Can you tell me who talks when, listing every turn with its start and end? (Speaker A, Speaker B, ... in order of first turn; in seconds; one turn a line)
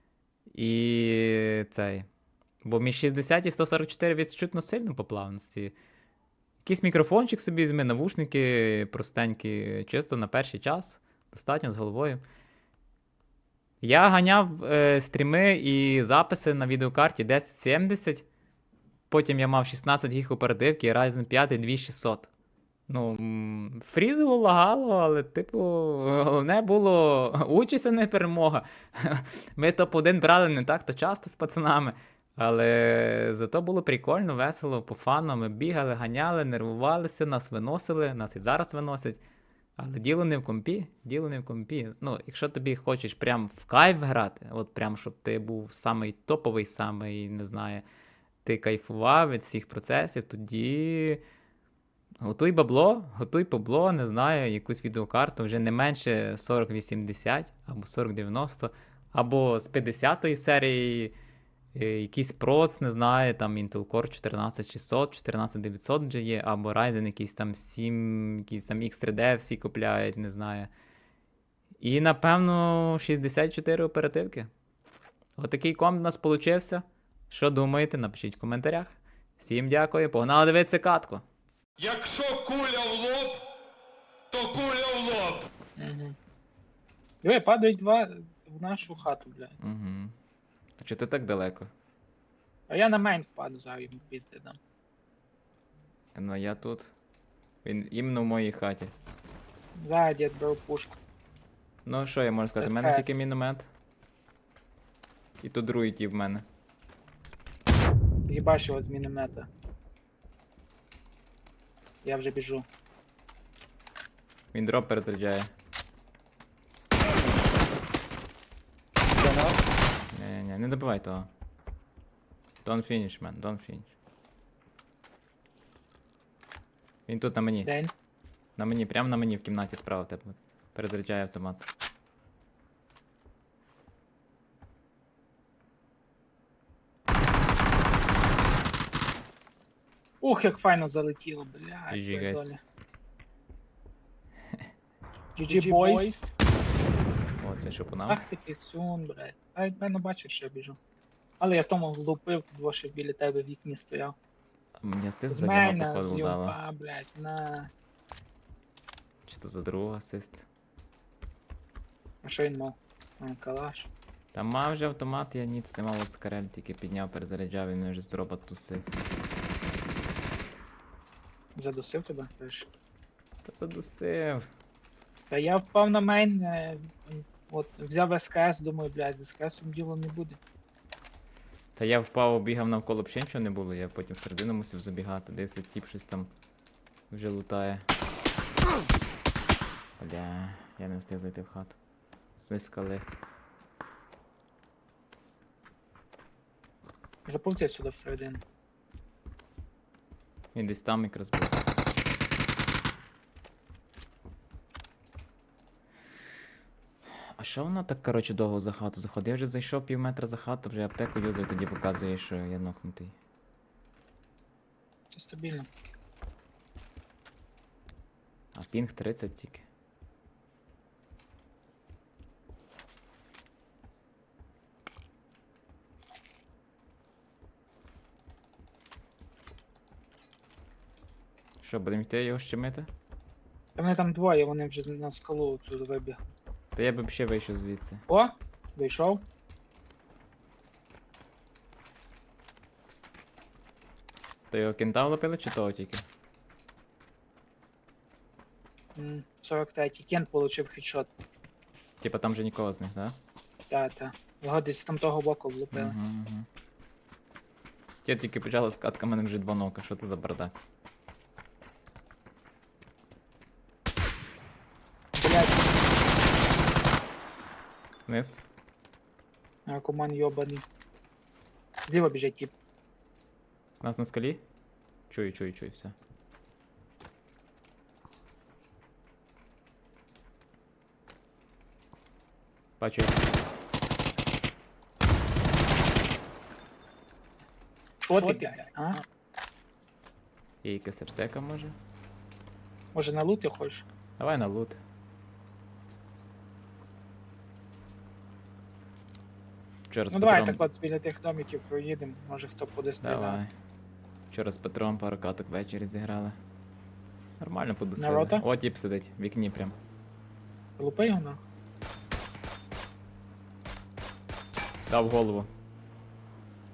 Speaker A: 0.5-2.1
Speaker A: 2.6-5.7
Speaker A: 6.6-12.2
Speaker A: 13.8-18.2
Speaker A: 19.1-22.3
Speaker A: 22.9-39.2
Speaker A: 39.8-47.8
Speaker A: 48.4-51.2
Speaker A: 52.2-61.1
Speaker A: 61.7-70.7
Speaker A: 71.8-74.5
Speaker A: 75.4-81.2
Speaker B: 81.8-83.4
Speaker B: 84.3-85.5
Speaker C: 85.8-86.2
Speaker C: 87.2-89.5
Speaker A: 89.6-90.1
Speaker A: 90.8-91.7
Speaker C: 92.7-94.6
Speaker A: 96.1-96.9
Speaker A: 97.6-98.9
Speaker C: 99.8-101.0
Speaker A: 101.8-103.7
Speaker C: 102.6-103.2
Speaker A: 105.4-106.4
Speaker C: 108.3-109.5
Speaker C: 112.0-112.7
Speaker A: 114.5-115.5
Speaker A: 120.1-121.3
Speaker A: 122.6-123.9
Speaker A: 127.1-127.7
Speaker C: 127.6-127.9
Speaker A: 128.6-131.7
Speaker C: 140.2-142.6
Speaker A: 141.9-142.6
Speaker C: 145.3-146.2
Speaker B: 145.5-146.3
Speaker A: 147.4-148.2
Speaker C: 148.1-150.8
Speaker C: 151.4-154.1
Speaker A: 154.8-156.6
Speaker C: 155.3-157.7
Speaker A: 159.2-160.4
Speaker C: 162.2-163.9
Speaker A: 164.3-168.8
Speaker C: 171.5-172.7
Speaker A: 173.4-174.4
Speaker C: 175.3-180.4
Speaker A: 181.8-186.3
Speaker A: 187.1-187.8
Speaker A: 190.0-191.8
Speaker A: 192.4-193.1
Speaker C: 197.2-198.4
Speaker A: 200.5-201.7
Speaker A: 207.4-213.1
Speaker C: 215.1-215.7
Speaker A: 218.5-219.6
Speaker A: 231.6-232.9
Speaker C: 233.8-236.3
Speaker A: 236.7-238.0
Speaker C: 238.1-239.2
Speaker A: 244.5-246.0
Speaker C: 248.9-251.1
Speaker A: 252.0-253.2
Speaker C: 253.7-256.0
Speaker A: 255.7-256.5
Speaker A: 258.0-260.5
Speaker C: 265.1-265.8
Speaker A: 268.1-268.4
Speaker C: 269.6-270.6
Speaker C: 271.9-272.5
Speaker A: 273.8-274.4
Speaker A: 275.1-275.9
Speaker A: 282.8-283.2
Speaker C: 288.0-289.0
Speaker B: 288.1-288.7
Speaker A: 290.6-291.7
Speaker C: 292.9-293.8
Speaker A: 294.2-294.8
Speaker A: 299.9-300.6
Speaker C: 300.1-303.4
Speaker A: 303.0-303.5
Speaker A: 304.3-306.4
Speaker A: 307.4-309.8
Speaker C: 308.0-308.4
Speaker C: 310.8-311.4
Speaker A: 314.9-315.5